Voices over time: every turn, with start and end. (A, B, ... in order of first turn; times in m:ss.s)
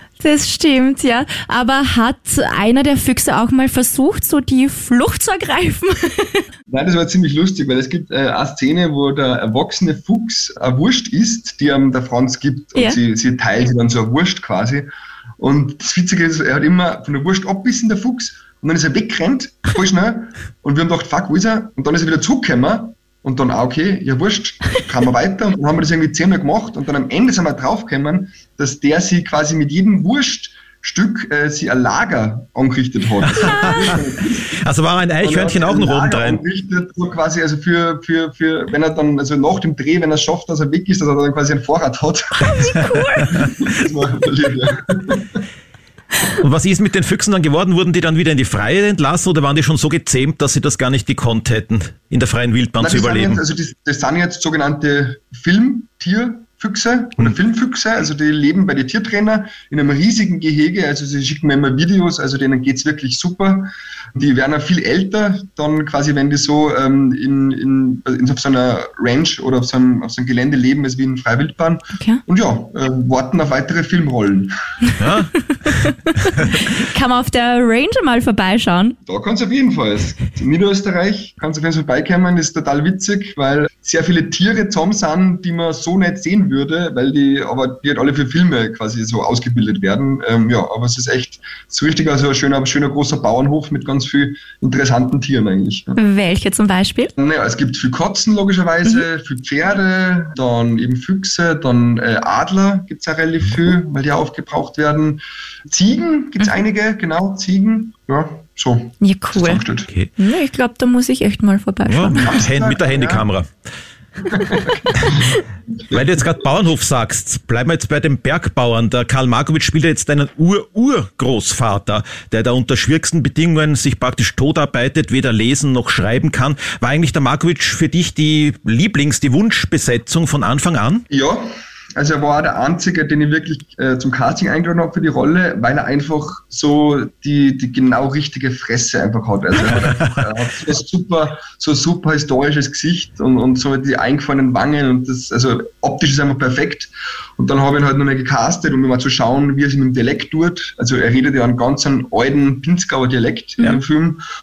0:00.2-0:06.4 A
0:06.7-0:34.6 B
0:33.2-0:34.0 C
0:34.6-0:36.4 C
0:35.2-0:45.4 B
0:42.4-0:43.5 A
0:42.8-0:43.5 C
0:46.4-0:53.4 C
0:52.8-1:14.5 B
1:15.0-1:15.7 C
1:15.7-1:19.0 A
1:19.0-1:36.0 B
1:36.0-1:37.1 A
1:37.2-1:49.9 B
1:49.0-1:49.6 A
1:50.2-1:52.3 A
1:51.8-1:53.5 C
1:52.2-1:53.2 B
1:54.3-1:55.3 B
1:55.9-1:56.2 B
1:55.9-2:11.0 C
2:11.1-2:34.2 B
2:19.7-2:20.0 C